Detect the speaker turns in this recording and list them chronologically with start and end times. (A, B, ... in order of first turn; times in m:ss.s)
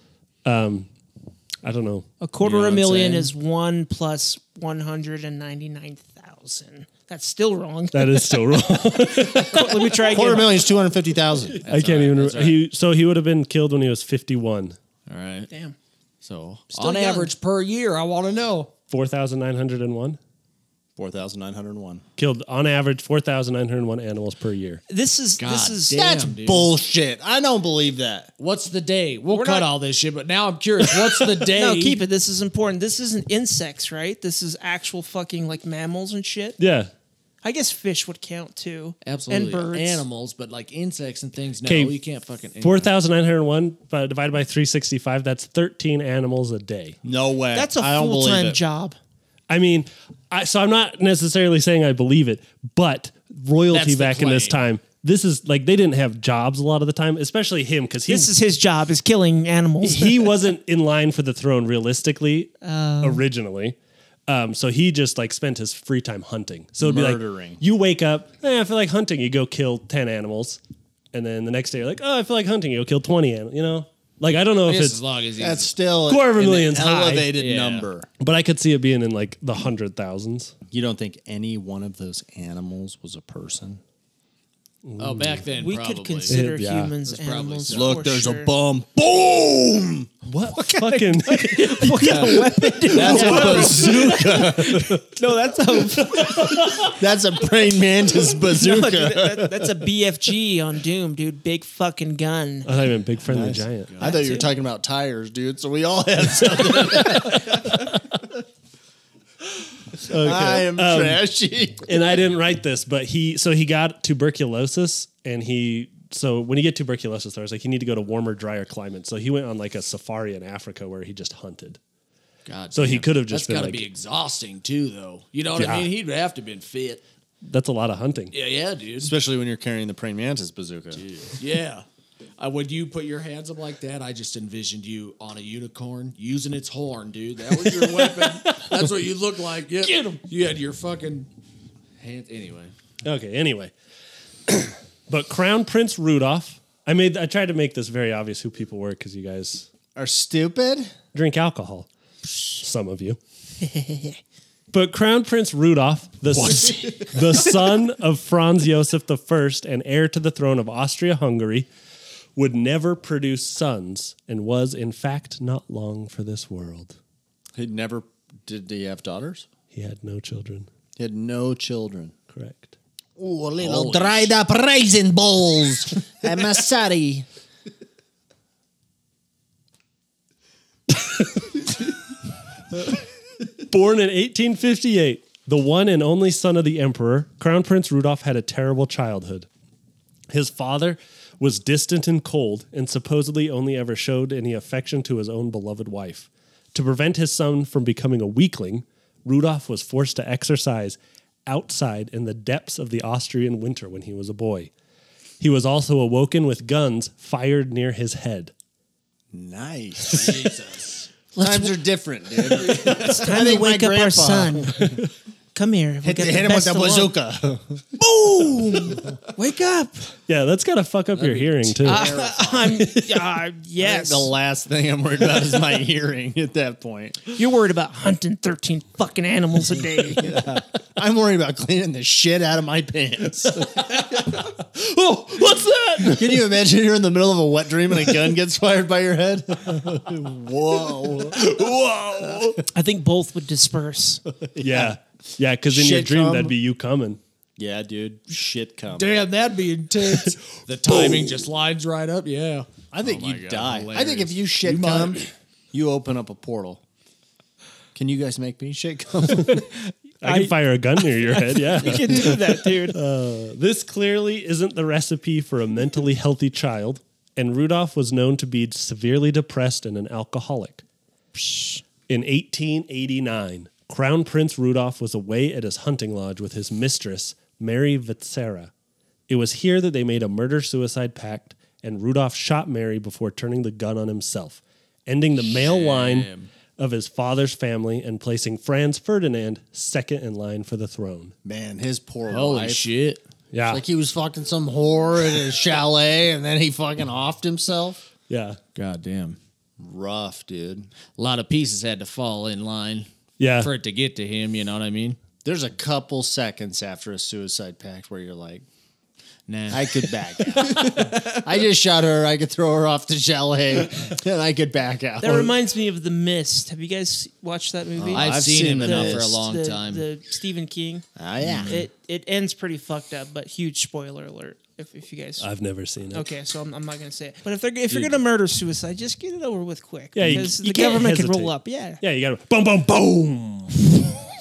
0:00.4-0:00.9 A
0:01.6-0:02.1 A
0:02.2-0:08.6 B
0:02.4-0:03.3 C
0:07.9-0:09.9 A
0:09.3-0:10.7 B
0:10.0-0:11.6 D
0:11.6-0:12.6 C
0:11.6-0:14.8 A
0:15.1-0:15.5 C
0:15.5-0:15.7 B
0:16.2-0:18.7 C
0:16.7-0:17.3 B
0:18.9-0:20.2 A
0:21.0-0:22.0 D
0:22.2-0:24.8 A
0:24.9-0:26.2 B
0:25.4-0:26.7 C
0:25.9-0:28.3 D
0:28.4-0:32.0 C
0:29.3-0:29.7 B
0:31.5-0:36.6 B
0:36.6-0:36.9 A
0:37.4-0:40.0 B
0:39.0-0:42.9 C
0:41.6-0:42.0 A
0:42.6-0:47.0 A
0:47.0-0:48.6 D
0:47.5-0:49.0 B
0:49.5-0:58.3 A
0:53.7-0:54.6 C
0:58.1-1:00.3 B
0:59.8-1:03.8 A
1:02.6-1:03.2 B
1:04.3-1:10.6 A
1:06.8-1:07.6 D
1:11.1-1:15.0 A
1:14.6-1:15.7 C
1:15.4-1:18.1 D
1:16.1-1:17.3 A
1:17.4-1:17.8 C
1:18.2-1:20.5 A
1:20.7-1:23.8 D
1:24.8-1:25.4 A
1:25.0-1:26.4 C
1:25.5-1:28.5 B
1:26.3-1:26.9 A
1:27.1-1:28.0 C
1:27.7-1:30.1 D
1:30.2-1:35.0 A
1:30.5-1:36.8 B
1:32.0-1:32.4 C
1:32.9-1:34.9 D
1:36.0-1:36.9 A
1:36.5-1:39.6 D
1:38.4-1:42.7 B
1:42.6-1:44.0 A
1:43.3-1:48.0 D
1:44.0-1:44.5 B
1:46.8-1:47.9 A
1:50.0-1:51.2 A
1:50.1-1:51.9 D
1:51.8-2:01.8 A
2:02.4-2:07.0 C
2:02.7-2:03.8 A
2:05.6-2:05.9 A
2:07.4-2:08.3 A
2:08.3-2:09.1 C
2:09.0-2:11.0 D
2:10.9-2:11.8 C
2:12.4-2:21.3 C
2:17.6-2:18.7 A
2:22.0-2:22.7 C
2:23.0-2:23.7 A
2:24.5-2:29.7 A
2:30.0-2:30.9 D
2:31.1-2:31.9 A
2:32.4-2:33.2 A
2:34.7-2:41.7 A
2:36.4-2:37.2 D
2:42.4-2:47.0 A
2:47.5-2:49.5 D
2:49.7-2:50.7 A
2:51.0-2:52.1 D
2:52.3-2:52.7 A
2:53.2-2:57.2 D
2:53.6-2:54.3 C
3:00.9-3:01.6 A
3:03.6-3:09.5 A
3:10.3-3:24.7 A
3:25.4-3:28.5 A
3:29.3-3:30.5 D
3:30.0-3:31.1 C
3:31.4-3:31.7 B
3:31.4-3:35.0 D
3:32.6-3:33.1 C
3:32.6-3:34.9 B
3:34.8-3:35.0 A
3:35.5-3:37.1 B
3:36.0-3:37.8 D
3:38.0-3:40.0 B
3:40.3-3:42.1 A
3:41.1-3:42.4 C
3:41.8-3:42.8 D
3:41.8-3:44.3 B
3:42.7-3:43.3 A
3:43.8-3:47.2 D
3:47.3-3:50.4 B
3:50.2-3:53.9 D
3:53.8-3:56.4 A
3:56.0-4:02.6 D
4:02.7-4:04.2 B
4:04.5-4:05.0 D
4:04.6-4:07.2 A
4:05.7-4:06.5 D
4:07.6-4:09.1 D
4:08.9-4:15.3 C
4:12.9-4:16.8 D
4:17.9-4:19.7 D
4:20.2-4:30.8 A
4:20.2-4:23.0 B
4:31.3-4:31.8 B
4:32.1-4:38.7 A
4:39.3-4:51.3 A
4:45.4-4:46.5 C
4:51.4-4:52.8 D
4:52.3-4:53.2 C
4:53.5-4:53.8 A
4:53.7-4:58.0 D
4:58.3-4:58.6 A
4:58.7-4:59.4 C
4:59.8-5:00.9 D
5:01.2-5:03.1 C
5:03.4-5:03.7 A
5:03.6-5:05.2 C
5:05.4-5:08.6 D
5:09.5-5:11.3 C
5:09.7-5:15.5 D
5:15.2-5:21.0 B
5:18.0-5:19.4 D
5:18.1-5:20.0 C
5:21.2-5:21.8 D
5:21.4-5:21.8 C
5:21.6-5:25.5 B
5:25.4-5:26.3 A
5:26.1-5:32.0 B
5:30.1-5:34.1 A